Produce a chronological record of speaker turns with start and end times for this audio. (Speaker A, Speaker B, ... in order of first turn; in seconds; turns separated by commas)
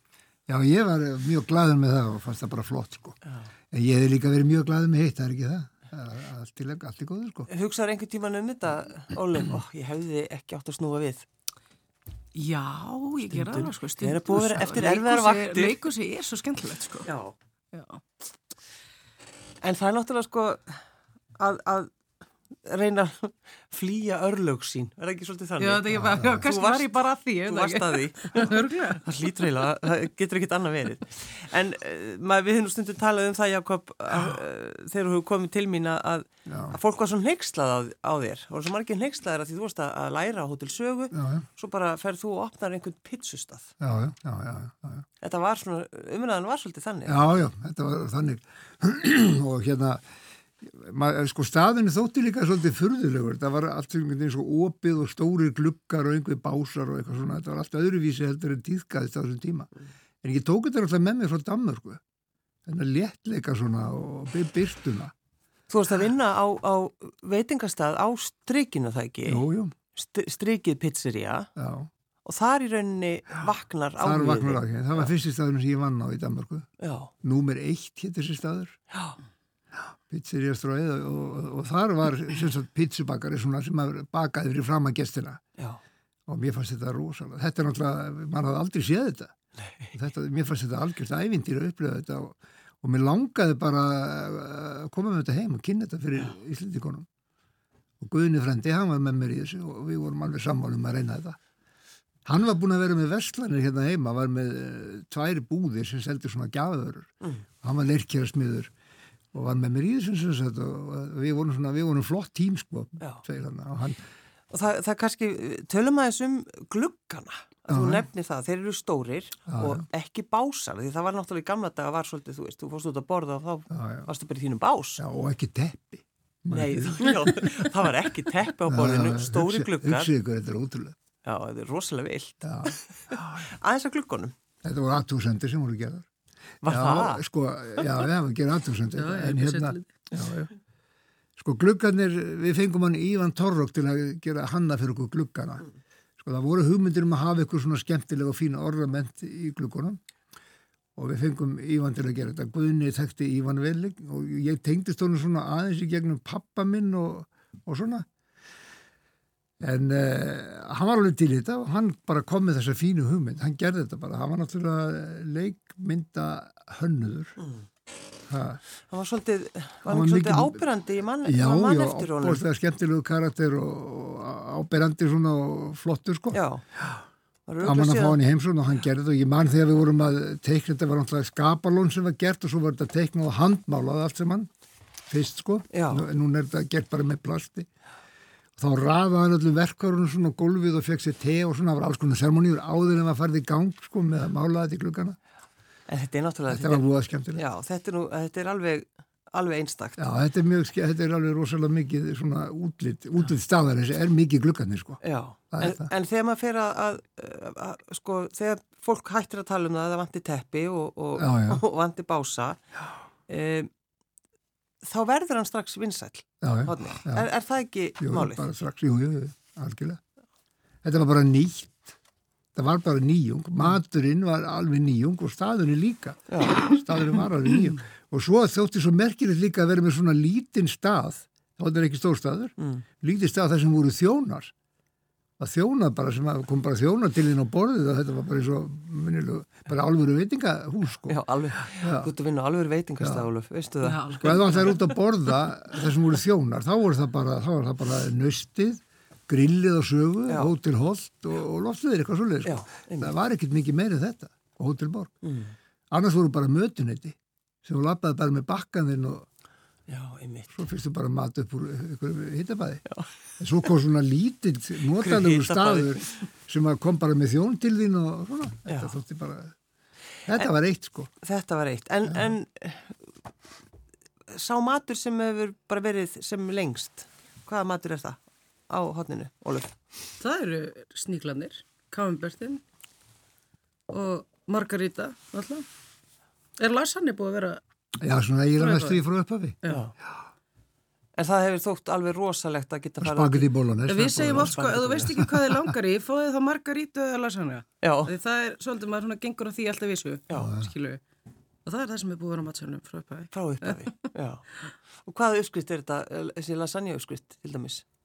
Speaker A: 0.5-3.2, Speaker A: 3.7-7.5, Speaker B: 7.5-11.2, Speaker C: 12.3-17.1, Speaker B: 13.3-15.8, Speaker B: 17.0-17.3, Speaker C: 17.7-18.0, Speaker B: 19.6-20.8, Speaker B: 21.4-21.9, Speaker B: 22.6-43.7, Speaker C: 25.6-29.0, Speaker A: 25.9-26.4, Speaker A: 36.5-36.8, Speaker A: 41.1-41.4, Speaker A: 43.8-45.0, Speaker B: 45.2-47.2, Speaker A: 47.1-50.0, Speaker A: 50.6-59.7, Speaker A: 60.2-62.0, Speaker A: 62.6-65.1, Speaker B: 65.7-71.5, Speaker A: 69.2-69.8, Speaker A: 71.5-71.9, Speaker B: 72.2-75.1, Speaker A: 74.0-76.7, Speaker B: 76.8-77.1, Speaker A: 77.2-78.8, Speaker B: 78.9-79.2, Speaker A: 79.8-85.4, Speaker A: 86.3-89.3, Speaker B: 89.6-89.9, Speaker A: 89.9-97.0, Speaker A: 98.0-101.4, Speaker A: 102.2-107.1, Speaker A: 107.6-108.7, Speaker A: 109.3-114.0, Speaker B: 114.5-125.0, Speaker A: 117.7-118.0, Speaker A: 119.5-119.8, Speaker A: 123.7-124.1, Speaker A: 125.0-127.5, Speaker B: 126.5-130.1, Speaker A: 128.7-130.9, Speaker B: 131.2-134.3, Speaker A: 132.4-133.4, Speaker A: 134.6-136.1, Speaker B: 136.6-137.2, Speaker A: 136.6-140.5, Speaker C: 138.9-139.9, Speaker A: 141.4-145.7, Speaker A: 146.2-150.0, Speaker A: 150.9-158.1, Speaker A: 159.6-167.4, Speaker B: 167.4-167.6, Speaker A: 168.3-168.6, Speaker B: 168.9-172.4, Speaker A: 169.8-170.6, Speaker A: 171.2-177.0, Speaker B: 176.3-176.6, Speaker B: 177.5-178.2, Speaker A: 177.6-184.5, Speaker A: 185.1-187.7, Speaker B: 185.7-186.1, Speaker A: 188.6-195.2, Speaker B: 195.9-200.0, Speaker A: 196.5-197.4, Speaker A: 200.0-205.0, Speaker B: 205.0-212.6, Speaker A: 205.5-205.9, Speaker A: 211.2-211.6, Speaker B: 213.3-213.7, Speaker B: 214.8-218.5, Speaker A: 216.4-217.3, Speaker A: 218.0-220.0, Speaker A: 220.8-221.9, Speaker A: 222.5-234.5, Speaker B: 226.3-226.7, Speaker B: 232.6-232.8, Speaker A: 235.4-241.2, Speaker B: 241.1-244.8, Speaker A: 241.8-242.1, Speaker A: 243.0-243.2, Speaker C: 243.8-244.8, Speaker A: 244.2-255.1, Speaker B: 250.3-250.5, Speaker B: 252.4-253.1, Speaker B: 255.2-255.5, Speaker A: 255.9-259.3, Speaker B: 259.9-260.5, Speaker A: 260.5-262.8, Speaker A: 263.4-269.5, Speaker B: 265.0-266.2, Speaker B: 268.7-268.9, Speaker A: 270.3-271.1, Speaker B: 271.2-272.9, Speaker B: 274.3-278.2, Speaker B: 278.7-279.7, Speaker C: 280.2-282.6, Speaker C: 283.9-285.6, Speaker C: 286.6-287.6, Speaker A: 288.0-289.6, Speaker C: 288.6-289.0, Speaker B: 289.7-289.9, Speaker B: 291.1-293.5, Speaker A: 293.0-295.7, Speaker C: 293.9-301.0, Speaker B: 294.1-295.3, Speaker B: 297.8-298.1, Speaker A: 300.3-300.7, Speaker C: 301.6-304.0, Speaker B: 303.3-304.4, Speaker B: 305.0-307.8